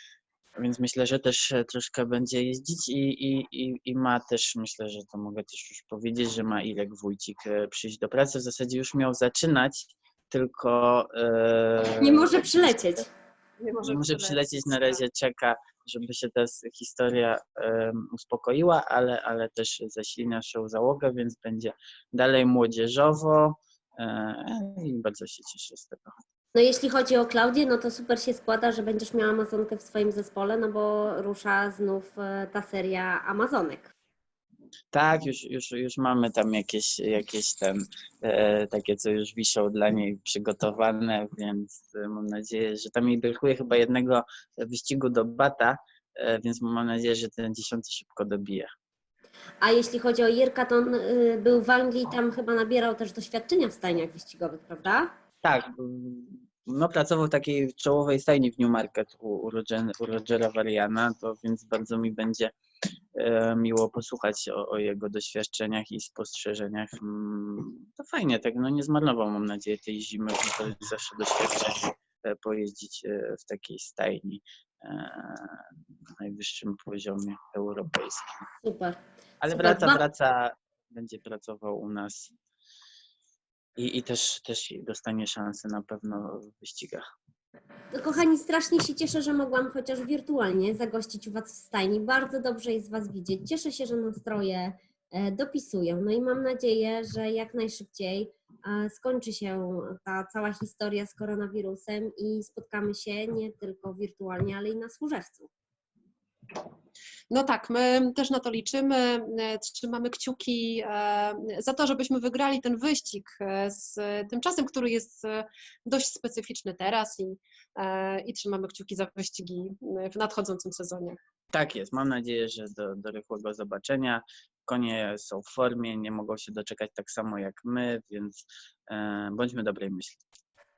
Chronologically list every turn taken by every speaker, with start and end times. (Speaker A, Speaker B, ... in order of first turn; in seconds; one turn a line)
Speaker A: 0.6-12.3
Speaker B: 12.0-13.1
Speaker C: 13.6-15.0
Speaker A: 13.8-26.1
Speaker B: 26.5-33.9
Speaker A: 34.9-48.7
Speaker B: 49.6-55.1
Speaker A: 55.4-62.5
Speaker A: 63.1-75.7
Speaker A: 76.2-78.2
Speaker B: 78.6-80.0
Speaker A: 79.4-82.3
Speaker A: 83.8-87.0
Speaker B: 87.9-105.5
Speaker C: 107.3-121.2
Speaker A: 121.5-130.2